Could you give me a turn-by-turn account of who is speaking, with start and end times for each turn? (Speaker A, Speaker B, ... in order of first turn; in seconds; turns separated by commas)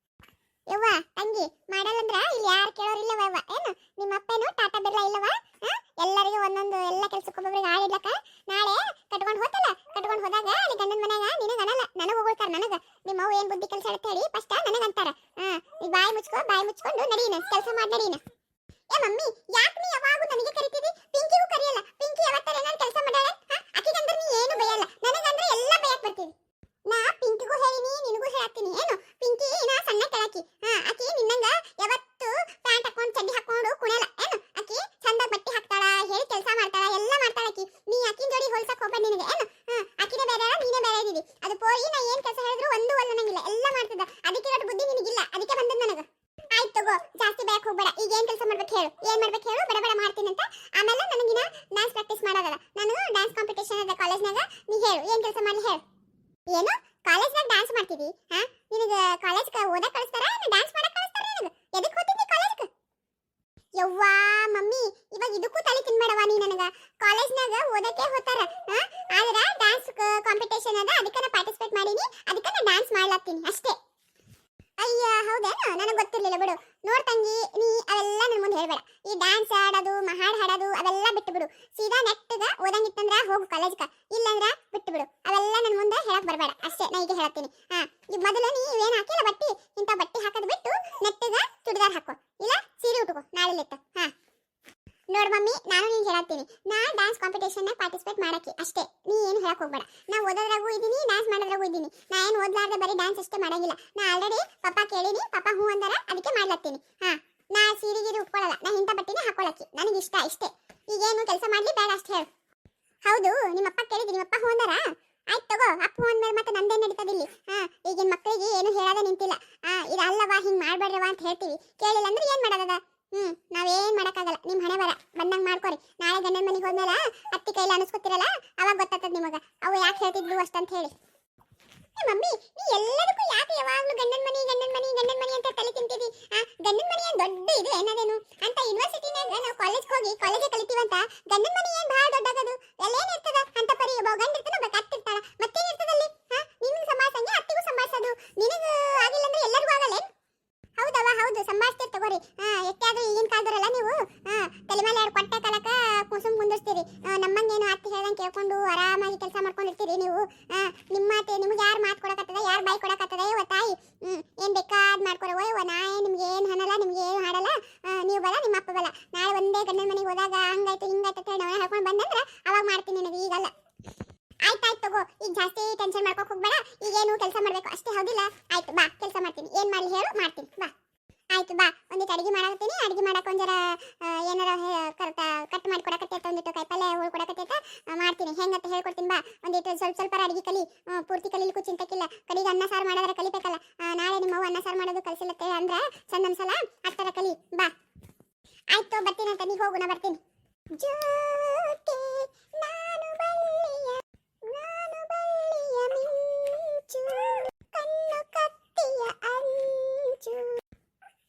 Speaker A: 0.7-18.2, Speaker A: 18.9-26.3, Speaker A: 26.9-55.8, Speaker A: 56.5-62.7, Speaker A: 63.8-73.8, Speaker A: 74.8-94.1, Speaker A: 95.1-112.3, Speaker A: 113.0-130.9, Speaker A: 132.0-150.1, Speaker A: 150.8-173.5, Speaker A: 174.4-180.7, Speaker A: 181.3-197.7, Speaker A: 198.7-200.2, Speaker A: 200.7-210.6